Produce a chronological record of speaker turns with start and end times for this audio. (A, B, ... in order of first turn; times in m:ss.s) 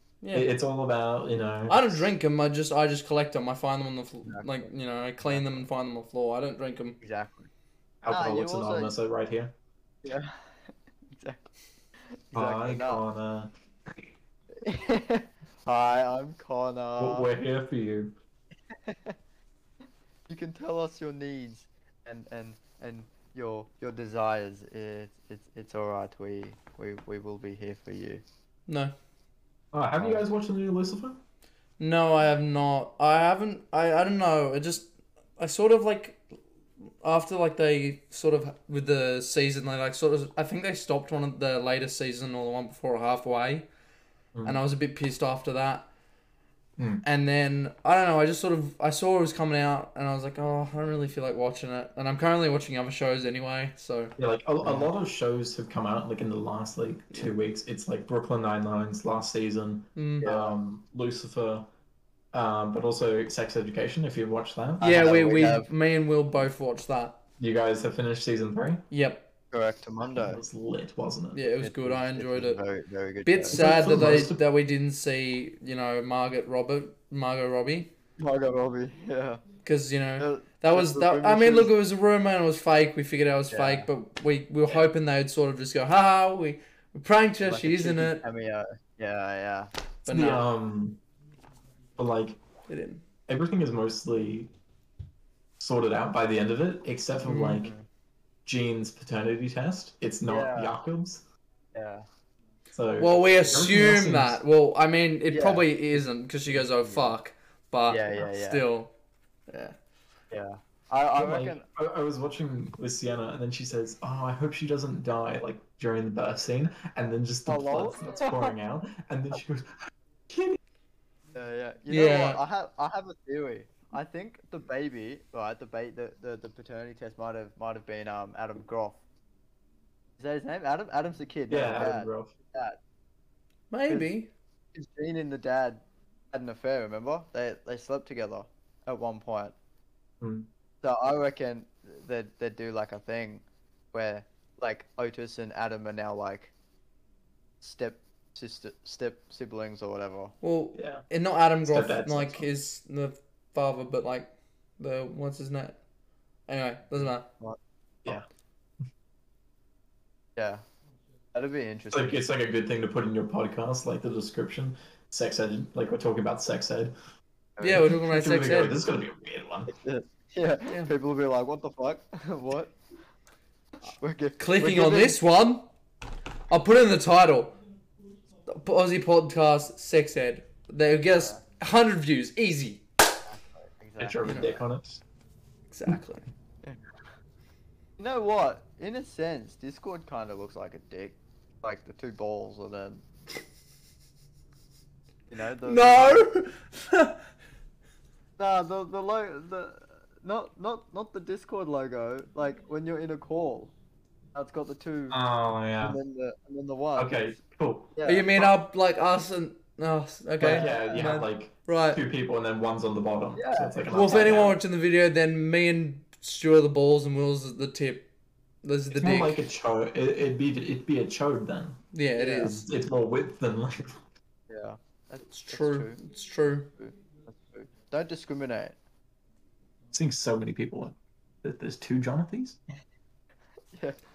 0:00.2-0:00.5 A
0:00.3-0:02.1 B
0:01.7-0:07.0 A
0:05.2-0:05.7 C
0:07.0-0:07.5 C
0:08.0-0:09.5 B
0:08.1-0:08.9 C
0:10.0-0:11.5 C
0:12.1-0:13.0 C
0:12.3-0:14.0 B
0:14.6-0:17.3 C
0:17.0-0:18.1 B
0:18.7-0:19.2 C
0:20.3-0:28.2 C
0:28.7-0:28.9 A
0:29.7-0:31.2 B
0:30.0-0:30.2 C
0:31.8-0:36.2 A
0:37.0-0:43.7 A
0:44.3-0:44.6 B
0:44.4-0:45.9 A
0:46.8-0:47.0 B
0:47.0-0:54.1 A
0:54.2-1:01.7 B
0:54.6-0:54.9 C
1:00.0-1:00.3 A
1:00.2-1:00.6 C
1:02.3-1:05.5 B
1:04.8-1:05.7 C
1:04.8-1:07.2 A
1:07.4-1:08.8 B
1:08.9-1:09.3 A
1:09.5-1:10.4 C
1:10.0-1:11.4 B
1:11.3-1:12.6 A
1:11.6-1:13.9 C
1:13.2-1:17.9 A
1:13.5-1:14.4 B
1:18.2-1:19.4 C
1:19.6-1:28.2 A
1:20.2-1:21.7 C
1:23.5-1:23.9 C
1:27.4-1:29.7 C
1:30.0-1:30.4 A
1:30.1-1:31.0 B
1:32.0-1:32.4 B
1:32.7-1:33.0 A
1:33.3-1:34.5 B
1:35.6-1:37.7 B
1:37.3-1:37.6 A
1:37.4-1:37.8 C
1:38.4-1:41.2 B
1:40.2-1:40.8 C
1:41.7-1:42.0 C
1:42.7-1:44.4 B
1:43.0-1:48.9 A
1:45.3-1:45.6 C
1:46.5-1:47.1 C
1:47.9-1:48.6 C
1:49.5-1:49.8 A
1:50.3-1:51.6 C
1:51.2-2:00.6 B
1:57.4-1:58.5 C
2:01.3-2:09.0 C
2:01.9-2:02.4 A
2:10.2-2:12.8 C
2:11.5-2:12.3 B
2:13.7-2:14.3 A
2:14.7-2:19.5 C
2:20.2-2:20.5 B
2:20.8-2:26.5 C
2:27.6-2:30.3 C
2:30.4-2:35.8 A
2:30.7-2:31.0 B
2:31.6-2:32.5 B
2:36.5-2:37.2 A
2:36.9-2:38.2 C
2:40.4-2:40.6 C
2:41.3-2:42.2 C
2:41.9-2:46.9 B
2:47.6-2:47.9 C
2:47.6-2:48.8 A
2:47.7-2:49.7 B
2:49.7-2:52.8 C
2:53.9-2:55.2 C
2:54.4-2:55.7 A
2:56.5-2:57.6 A
2:58.5-3:02.8 A
3:01.1-3:01.4 C
3:03.2-3:04.6 C
3:04.0-3:05.0 B
3:04.2-3:04.5 A
3:05.7-3:06.2 A
3:08.0-3:13.0 C
3:15.3-3:16.3 C
3:15.6-3:17.2 A
3:18.4-3:23.7 C
3:24.3-3:25.2 C
3:25.1-3:26.0 B
3:25.8-3:27.4 C
3:27.0-3:28.5 B
3:28.0-3:28.3 C
3:28.0-3:32.0 A
3:30.4-3:34.6 B
3:30.4-3:31.1 C
3:33.4-3:34.5 C
3:33.9-3:38.1 A
3:38.6-3:39.4 A
3:38.9-3:41.8 B
3:41.9-3:42.6 A
3:42.2-3:42.6 C
3:42.4-3:44.0 B
3:44.5-3:46.0 C
3:45.3-3:46.7 A
3:46.8-3:48.8 C
3:49.9-3:52.6 B
3:53.7-3:54.0 C